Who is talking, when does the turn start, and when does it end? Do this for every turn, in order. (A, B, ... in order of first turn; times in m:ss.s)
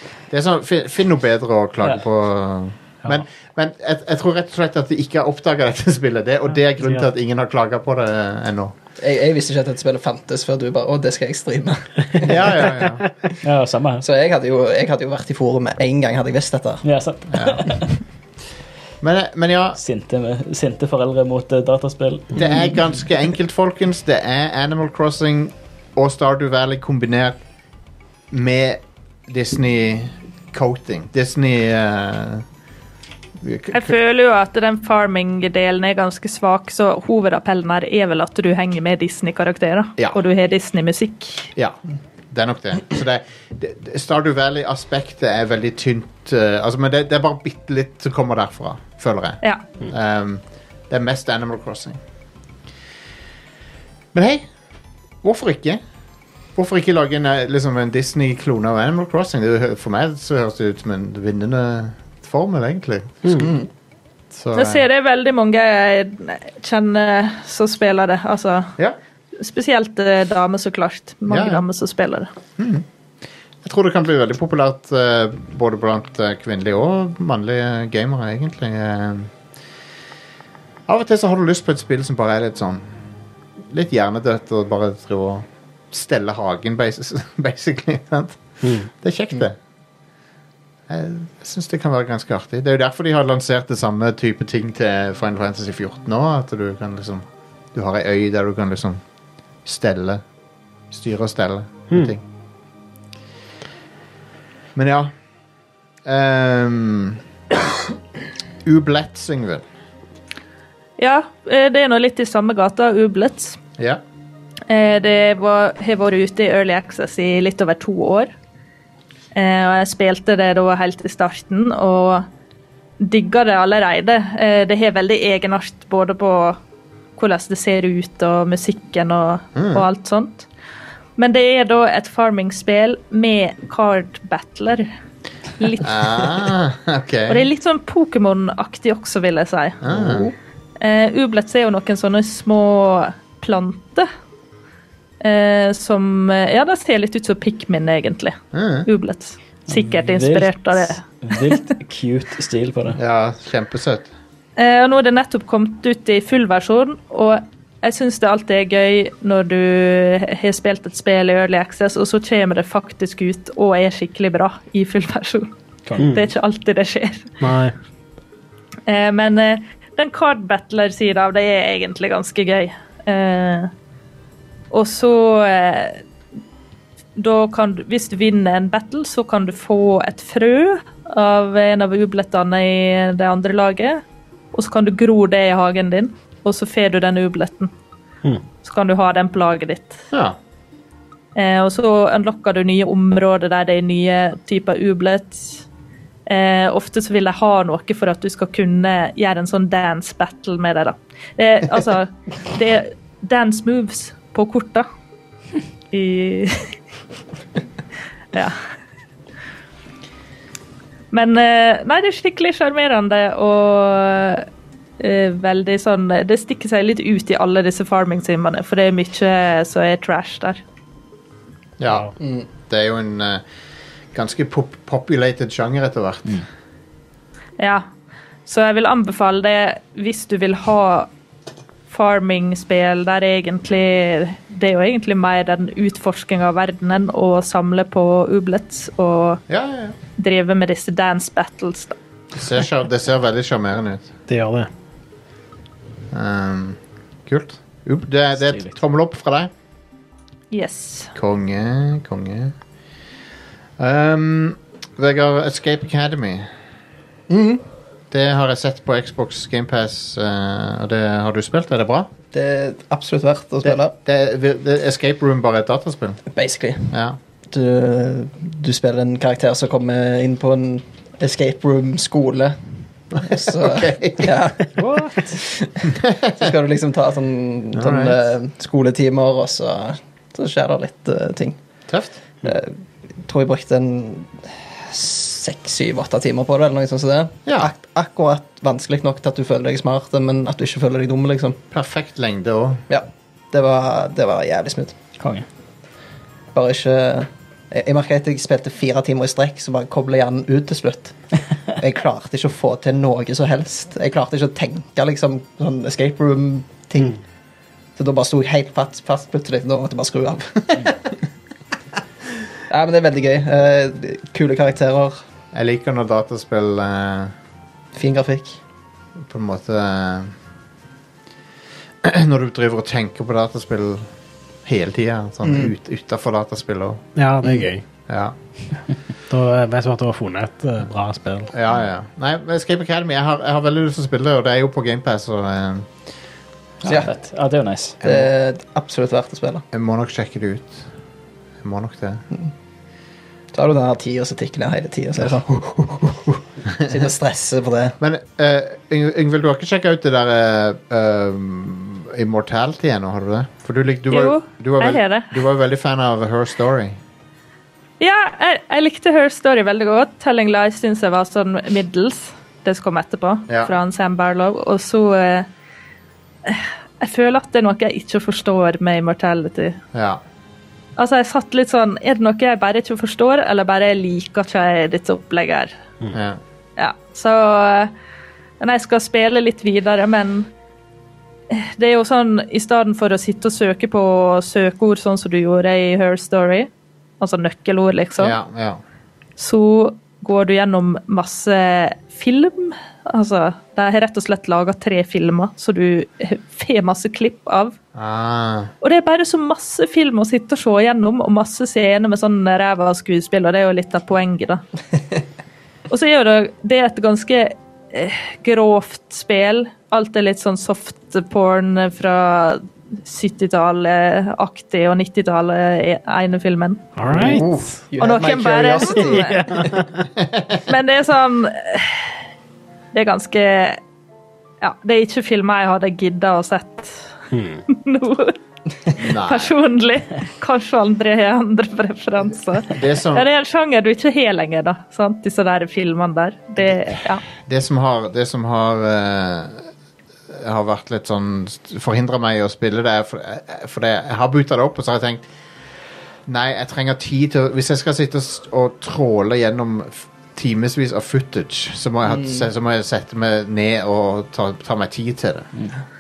0:00.3-0:08.7 A
0:09.0-0:12.7 B
0:12.2-0:13.0 A
0:13.4-0:14.0 C
0:14.0-0:16.8 B
0:16.8-0:17.9 C
0:17.3-0:17.7 A
0:19.0-0:19.8 A
0:19.8-0:22.4 C
0:22.4-0:27.4 A
0:28.3-0:32.4 A
0:33.4-0:33.9 A
0:33.7-0:41.5 D
0:42.3-0:52.0 A
0:54.1-0:54.5 A
0:55.2-0:55.8 A
0:56.6-1:03.5 A
1:03.4-1:03.7 B
1:04.3-1:04.8 A
1:04.6-1:08.7 D
1:09.4-1:12.3 D
1:11.3-1:11.6 A
1:12.6-1:12.8 A
1:13.6-1:19.3 A
1:20.9-1:22.8 A
1:23.6-1:29.6 A
1:28.6-1:28.9 E
1:30.9-1:39.0 A
1:39.6-1:40.2 A
1:40.9-1:42.2 A
1:44.8-1:45.1 A
1:46.0-1:47.2 A
1:48.6-1:49.6 A
1:51.0-1:53.6 D
1:54.7-1:58.3 D
1:59.3-2:02.3 D
2:03.0-2:06.6 D
2:07.2-2:10.5 D
2:09.6-2:09.9 A
2:11.2-2:14.9 D
2:15.6-2:16.0 D
2:15.8-2:17.5 A
2:17.3-2:19.8 D
2:19.8-2:20.3 A
2:19.9-2:20.3 B
2:20.8-2:24.1 D
2:25.2-2:31.6 D
2:28.5-2:28.9 A
2:29.7-2:33.0 C
2:32.9-2:34.1 A
2:34.6-2:45.5 D
2:46.0-2:46.3 E
2:46.0-2:47.3 D
2:47.4-2:47.7 E
2:48.9-2:53.7 D
2:54.7-2:56.0 D
2:57.2-3:04.0 D
3:04.5-3:07.7 D
3:08.6-3:10.0 D
3:11.4-3:15.6 D
3:16.3-3:24.9 D
3:25.9-3:26.8 D
3:28.3-3:28.6 D
3:31.1-3:34.5 D
3:35.0-3:40.6 D
3:41.8-3:43.4 A
3:42.2-3:42.5 B
3:44.1-3:46.4 A
3:47.6-3:47.9 D
3:48.5-3:51.1 D
3:51.9-3:59.4 D
3:59.5-4:00.0 A
4:00.2-4:02.0 D
4:02.4-4:04.1 A
4:04.3-4:04.7 E
4:06.1-4:09.5 A
4:10.5-4:11.1 D
4:11.2-4:12.5 A
4:13.8-4:16.5 A
4:17.3-4:17.6 B
4:18.1-4:22.1 A
4:22.3-4:23.9 B
4:23.6-4:26.2 A
4:26.3-4:27.0 B
4:26.9-4:27.2 A
4:27.5-4:41.6 B
4:33.2-4:34.4 A
4:34.8-4:35.3 E
4:36.0-4:36.5 A
4:37.7-4:38.2 A
4:41.9-4:42.2 A
4:42.4-4:51.6 B
4:47.5-4:47.7 A
4:51.7-4:52.8 A
4:52.9-4:55.0 B
4:55.2-4:55.5 C
4:56.5-5:07.2 B
5:08.0-5:11.1 B
5:12.7-5:15.2 B
5:15.5-5:17.3 A
5:17.9-5:18.6 B
5:19.2-5:20.3 A
5:22.0-5:24.1 A
5:24.6-5:27.0 A
5:25.4-5:25.7 B
5:27.2-5:27.8 E
5:28.1-5:28.4 A
5:29.3-5:31.5 E
5:31.5-5:35.9 A
5:36.8-5:38.0 C
5:36.8-5:37.1 B
5:38.0-5:39.6 B
5:39.7-5:40.8 A
5:41.6-5:42.2 A
5:43.5-5:48.0 B
5:48.0-5:57.0 A
5:54.1-5:55.3 D
5:58.0-6:05.5 D
6:06.4-6:09.8 D
6:09.9-6:10.2 A
6:11.0-6:15.7 D
6:16.1-6:16.4 A
6:16.8-6:17.9 D
6:18.6-6:20.5 D
6:21.5-6:28.4 D
6:28.2-6:28.8 A
6:29.4-6:37.8 D
6:38.0-6:38.7 A
6:38.8-6:44.6 D
6:45.9-6:56.9 D
6:57.0-6:57.5 E
6:57.2-6:59.6 B
6:57.2-6:57.7 A
6:58.0-6:59.6 D
6:59.0-7:00.0 E
7:00.2-7:00.6 A
7:00.7-7:02.1 D
7:02.9-7:03.8 D
7:04.6-7:07.1 D
7:07.3-7:07.6 E
7:07.7-7:08.4 D
7:09.0-7:09.5 A
7:09.0-7:17.3 D
7:12.7-7:13.3 A
7:17.3-7:19.7 A
7:20.3-7:25.2 A
7:26.3-7:35.5 A
7:32.1-7:32.4 B